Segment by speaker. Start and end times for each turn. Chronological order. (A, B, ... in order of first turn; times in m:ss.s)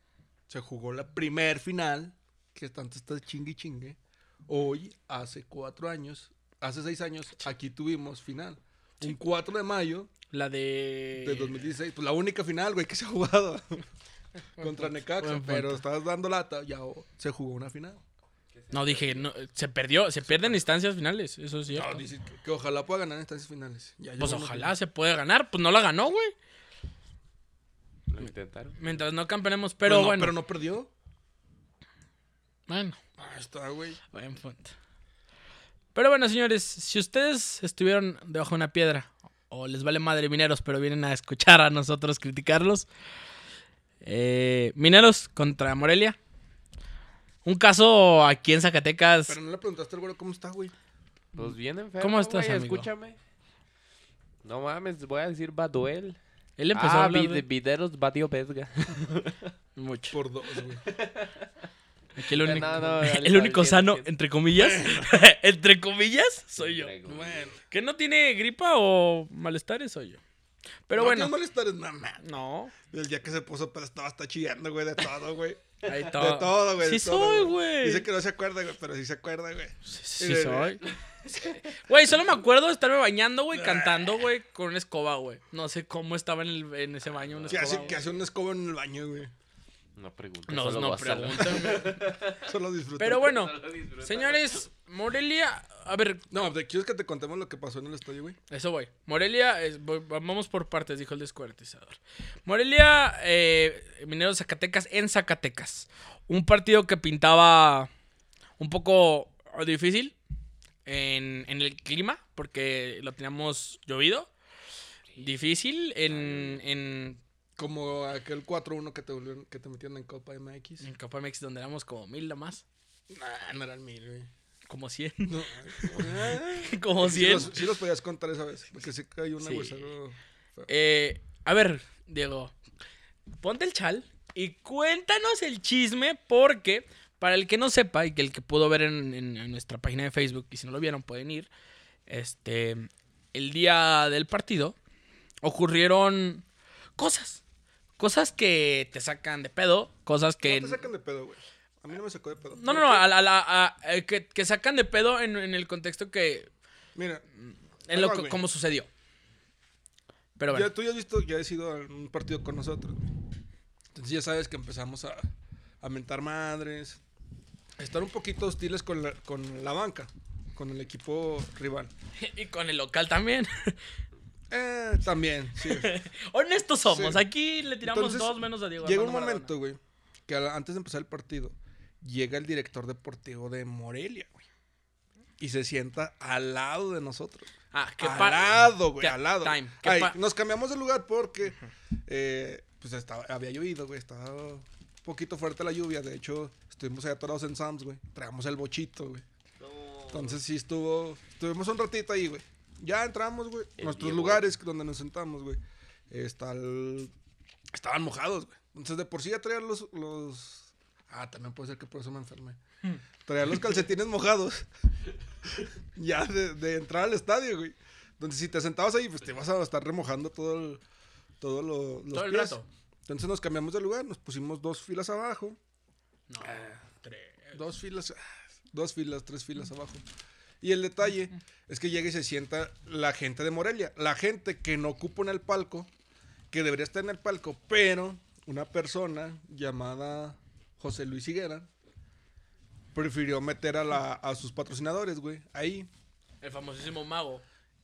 0:00.5-0:10.1 A
0:10.3-0:11.6 B
0:11.2-0:13.8 A
0:14.6-0:18.0 A
0:14.6-0:15.8 B
0:18.5-0:19.3 C
0:18.7-0:22.0 B
0:20.2-0:20.6 A
0:21.7-0:24.7 A
0:24.2-0:26.3 B
0:28.1-0:29.0 C
0:28.8-0:30.4 B
0:29.8-0:30.9 A
0:32.7-0:33.0 B
0:33.2-0:34.0 A
0:34.1-0:34.7 B
0:36.0-0:42.9 B
0:44.0-0:46.2 B
0:47.4-0:49.4 B
0:49.3-0:50.7 A
0:51.3-0:52.9 B
0:51.4-0:53.2 C
0:54.4-0:56.2 C
0:56.6-0:57.4 B
0:56.7-0:59.5 C
0:59.8-1:00.2 B
1:00.1-1:00.8 A
1:00.8-1:01.5 C
1:02.2-1:06.9 B
1:02.3-1:04.1 C
1:04.6-1:05.1 A
1:06.6-1:07.5 C
1:07.1-1:07.6 A
1:07.7-1:10.2 B
1:10.9-1:11.3 B
1:10.9-1:12.2 A
1:12.2-1:12.8 B
1:12.8-1:20.8 A
1:15.8-1:18.1 B
1:19.8-1:28.0 B
1:20.8-1:21.6 C
1:23.5-1:24.3 A
1:27.1-1:28.0 C
1:27.5-1:29.3 A
1:30.0-1:32.5 C
1:30.5-1:32.0 B
1:31.4-1:31.7 A
1:32.4-1:33.4 A
1:33.0-1:36.3 B
1:33.2-1:34.6 C
1:36.3-1:38.4 A
1:38.5-1:47.9 B
1:48.6-1:50.2 B
1:50.9-1:54.3 B
1:55.2-1:57.2 B
1:56.1-1:56.6 C
1:57.6-2:00.9 A
2:00.8-2:02.6 B
2:03.1-2:04.3 A
2:04.7-2:07.7 B
2:05.3-2:10.7 A
2:09.4-2:09.8 B
2:10.7-2:12.5 B
2:13.4-2:21.5 B
2:22.1-2:24.8 B
2:25.4-2:26.4 B
2:27.0-2:27.4 B
2:28.0-2:30.8 B
2:30.4-2:33.0 A
2:32.5-2:36.5 B
2:37.0-2:37.2 A
2:37.5-2:38.9 B
2:37.9-2:38.4 A
2:40.4-2:40.7 B
2:40.5-2:43.1 A
2:43.9-2:45.3 A
2:45.8-2:47.0 A
2:47.8-2:51.9 A
2:52.2-2:53.8 B
2:54.5-2:56.0 A
2:55.6-2:59.5 B
2:56.9-2:57.2 A
2:57.8-3:04.3 A
3:05.4-3:19.2 A
3:07.7-3:10.2 B
3:19.6-3:20.4 C
3:20.1-3:25.6 A
3:23.8-3:24.5 C
3:26.1-3:27.1 A
3:27.7-3:32.6 A
3:33.2-3:34.7 A
3:35.5-3:40.8 A
3:41.4-3:45.6 A
3:42.1-3:42.7 B
3:46.3-3:47.6 B
3:46.4-3:46.7 A
3:47.5-3:50.0 A
3:50.6-3:55.9 A
3:56.5-4:01.7 A
4:02.9-4:05.9 A
4:06.4-4:07.4 B